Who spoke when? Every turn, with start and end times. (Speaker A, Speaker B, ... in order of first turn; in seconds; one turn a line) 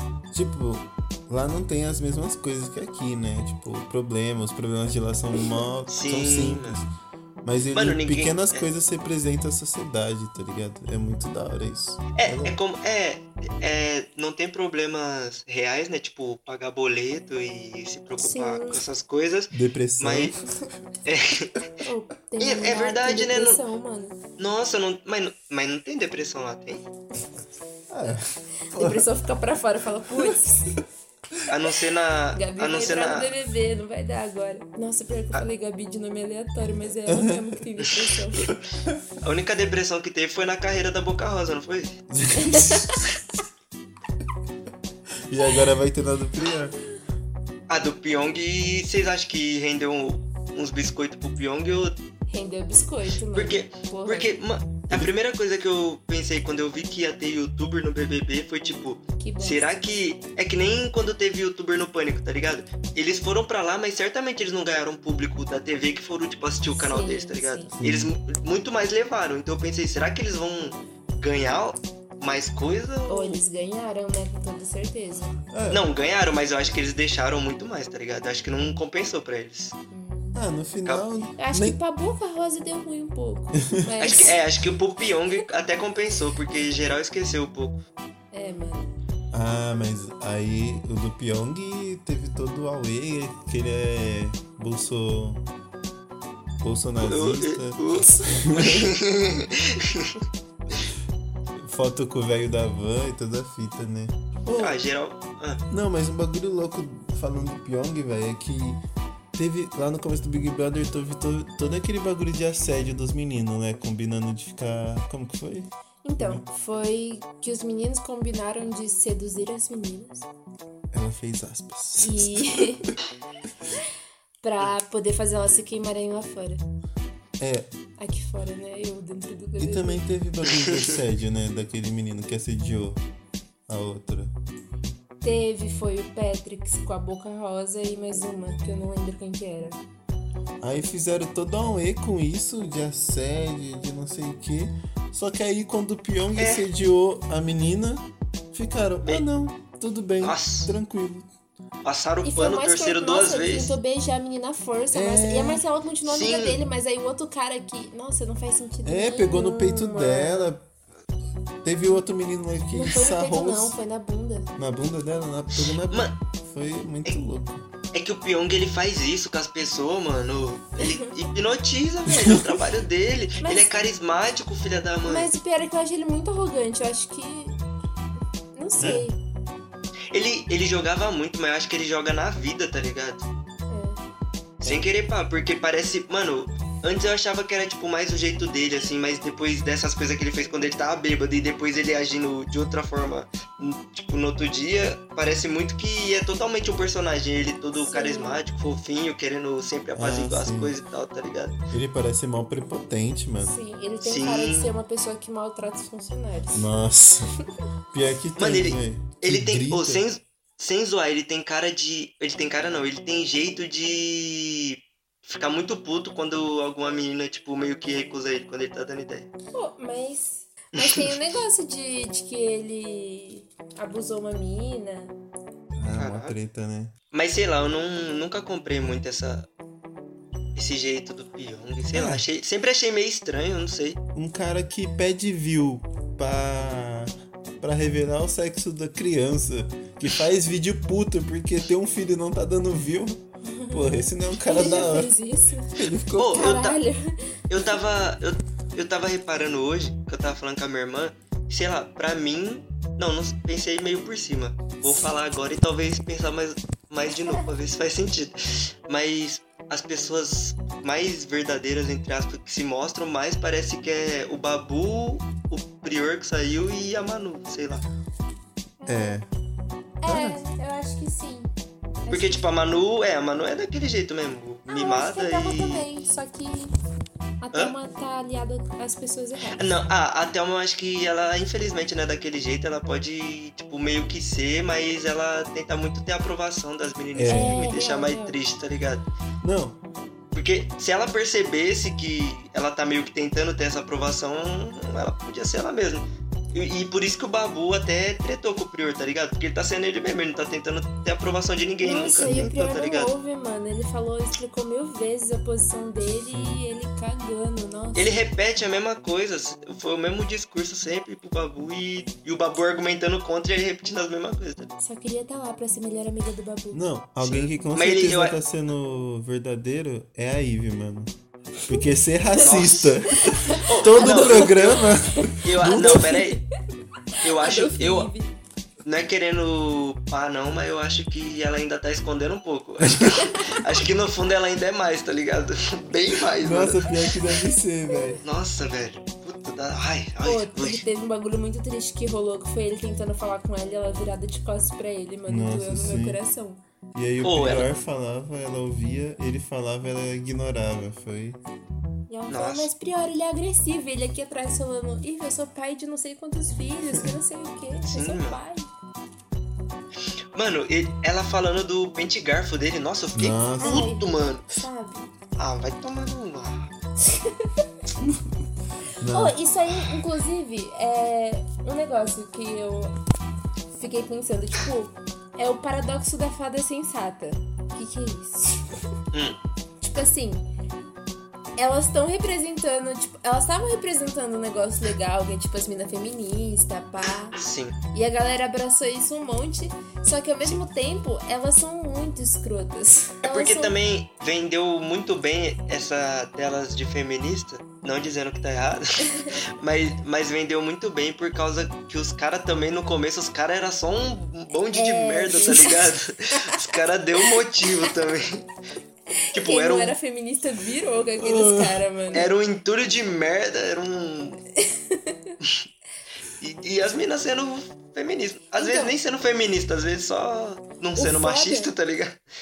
Speaker A: 0.3-6.9
Speaker B: 5.9-6.8
Speaker A: 7.4-12.6
Speaker B: 7.7-8.7
Speaker B: 12.2-20.4
Speaker C: 18.2-18.8
Speaker A: 19.5-20.4
Speaker B: 21.0-21.7
Speaker C: 21.8-24.2
Speaker B: 22.4-23.6
Speaker B: 24.4-26.8
Speaker A: 27.9-29.1
Speaker C: 28.7-30.8
Speaker B: 31.5-33.3
Speaker C: 32.3-38.5
Speaker A: 37.1-37.4
Speaker B: 39.2-42.0
Speaker A: 42.1-43.0
Speaker C: 42.4-43.0
Speaker A: 45.3-46.7
Speaker B: 47.7-52.0
Speaker C: 52.3-54.3
Speaker B: 53.3-73.4
Speaker C: 59.2-59.6
Speaker C: 66.7-67.7
Speaker A: 67.8-68.1
Speaker C: 73.1-75.3
Speaker A: 75.5-75.8
Speaker B: 75.7-79.7
Speaker C: 79.9-80.4
Speaker A: 80.3-81.8
Speaker C: 81.4-84.3
Speaker B: 84.0-87.8
Speaker C: 88.3-88.9
Speaker A: 89.3-95.4
Speaker A: 96.6-98.9
Speaker B: 97.0-100.2
Speaker A: 101.6-104.8
Speaker B: 104.5-105.6
Speaker A: 105.7-108.8
Speaker A: 109.3-116.4
Speaker C: 116.0-120.3
Speaker A: 120.9-122.9
Speaker C: 122.0-122.9
Speaker C: 124.4-126.6
Speaker A: 127.4-127.7
Speaker C: 128.0-130.0
Speaker A: 129.6-133.0
Speaker A: 133.7-134.3
Speaker C: 135.2-139.8
Speaker A: 140.6-151.3
Speaker B: 146.3-146.6
Speaker B: 150.2-150.7
Speaker B: 151.8-153.7
Speaker C: 152.2-160.5
Speaker A: 154.9-155.6
Speaker B: 156.0-156.6
Speaker A: 158.8-160.7
Speaker A: 161.6-163.8
Speaker C: 162.7-164.5
Speaker A: 164.6-167.6
Speaker B: 165.9-166.2
Speaker B: 167.9-175.3
Speaker C: 170.8-171.1
Speaker A: 172.1-172.6
Speaker C: 173.4-173.8
Speaker C: 175.1-177.6
Speaker C: 178.5-179.2
Speaker A: 178.8-179.1
Speaker B: 180.1-183.3
Speaker C: 183.7-184.0
Speaker B: 184.6-201.6
Speaker C: 197.8-198.4
Speaker A: 199.9-200.8
Speaker A: 201.7-203.6
Speaker C: 203.4-206.7
Speaker B: 204.0-204.7
Speaker A: 206.5-207.3
Speaker A: 207.9-210.0
Speaker B: 208.4-219.3
Speaker C: 219.5-225.1
Speaker B: 220.8-221.0
Speaker A: 225.8-226.9
Speaker B: 225.9-226.3
Speaker B: 227.1-229.5
Speaker B: 230.6-234.0
Speaker A: 231.9-232.2
Speaker A: 234.1-245.1
Speaker C: 243.4-245.7
Speaker A: 245.7-246.6
Speaker B: 246.2-246.8
Speaker C: 246.3-247.2
Speaker B: 247.5-267.9
Speaker C: 268.8-269.2
Speaker A: 268.9-269.2
Speaker C: 270.0-271.5
Speaker A: 270.1-270.4
Speaker C: 272.0-272.4
Speaker B: 272.1-275.9
Speaker C: 274.7-276.7
Speaker C: 277.4-279.7
Speaker B: 279.6-289.1
Speaker A: 287.1-287.8
Speaker C: 287.2-288.4
Speaker A: 289.4-289.8
Speaker B: 290.3-303.1
Speaker C: 301.8-308.2
Speaker A: 302.2-302.5
Speaker A: 306.3-306.6
Speaker B: 307.9-314.7
Speaker C: 314.8-316.8
Speaker A: 316.7-321.1
Speaker B: 317.2-318.4
Speaker A: 321.6-326.2
Speaker B: 322.4-324.9
Speaker C: 323.3-326.4
Speaker B: 325.4-326.4
Speaker C: 327.1-328.3
Speaker B: 327.2-328.1
Speaker B: 328.8-336.9
Speaker A: 336.4-338.2
Speaker B: 338.2-340.8
Speaker C: 340.2-346.6
Speaker A: 345.3-346.2
Speaker A: 346.9-351.4
Speaker B: 347.2-347.7
Speaker C: 352.1-358.7
Speaker B: 352.3-352.7
Speaker B: 357.9-358.4
Speaker B: 360.3-364.5
Speaker A: 363.1-363.9
Speaker C: 363.6-365.1
Speaker B: 365.4-366.7
Speaker A: 368.0-368.3
Speaker A: 369.0-369.4
Speaker C: 369.1-372.9
Speaker C: 373.7-378.6
Speaker B: 379.1-379.4
Speaker C: 379.8-380.5
Speaker C: 381.6-387.4
Speaker B: 387.4-387.8
Speaker C: 387.9-393.7
Speaker B: 393.2-408.4
Speaker C: 404.7-406.4
Speaker C: 407.2-407.9
Speaker C: 409.3-412.3
Speaker B: 409.3-409.9
Speaker A: 411.2-411.8
Speaker B: 412.1-414.4
Speaker C: 414.7-415.3
Speaker B: 416.4-422.2
Speaker C: 418.6-418.9
Speaker C: 420.9-421.7